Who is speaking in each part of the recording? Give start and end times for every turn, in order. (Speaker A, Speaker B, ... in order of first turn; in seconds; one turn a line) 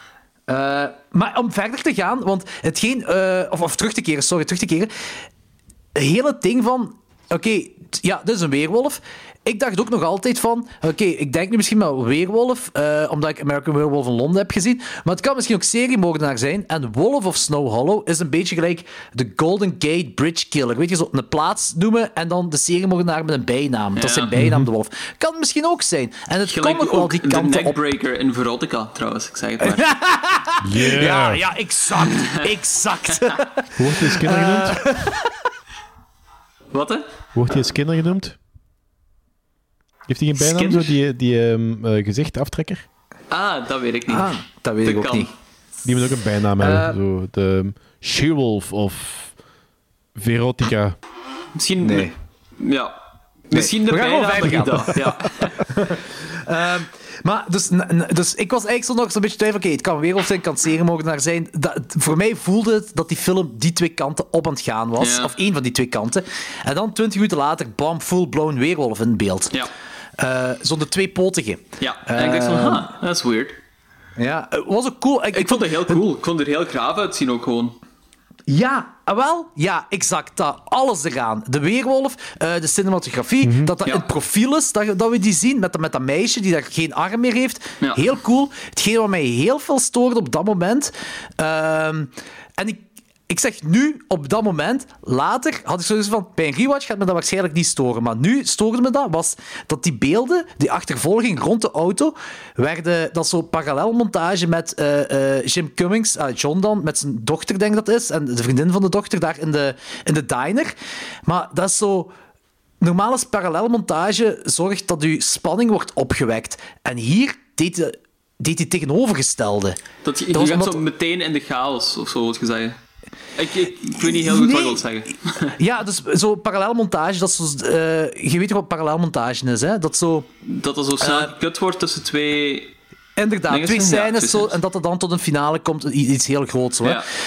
Speaker A: 0.5-4.9
Speaker A: 5.9-27.8
Speaker B: 23.9-24.3
Speaker C: 24.3-24.7
Speaker B: 26.4-29.8
Speaker A: 29.6-35.3
Speaker C: 30.6-31.4
Speaker C: 33.8-34.8
Speaker B: 36.7-37.0
Speaker C: 37.3-38.4
Speaker C: 40.1-42.8
Speaker B: 40.4-40.9
Speaker B: 43.3-44.3
Speaker A: 44.1-45.3
Speaker B: 44.8-45.3
Speaker C: 45.8-49.4
Speaker A: 46.6-47.0
Speaker C: 50.1-51.0
Speaker B: 51.6-52.1
Speaker A: 51.8-52.1
Speaker B: 52.6-52.9
Speaker B: 53.5-55.6
Speaker A: 53.5-69.5
Speaker B: 65.0-65.3
Speaker A: 70.2-72.9
Speaker B: 71.8-73.6
Speaker A: 74.2-76.0
Speaker B: 75.3-77.8
Speaker A: 78.5-110.7
Speaker C: 83.4-83.7
Speaker A: 111.2-112.1
Speaker A: 112.8-119.8
Speaker B: 120.0-122.8
Speaker A: 120.3-120.8
Speaker B: 123.4-125.4
Speaker A: 124.0-124.8
Speaker A: 125.5-130.3
Speaker B: 130.4-132.7
Speaker A: 131.0-131.3
Speaker A: 133.2-137.0
Speaker B: 133.5-134.5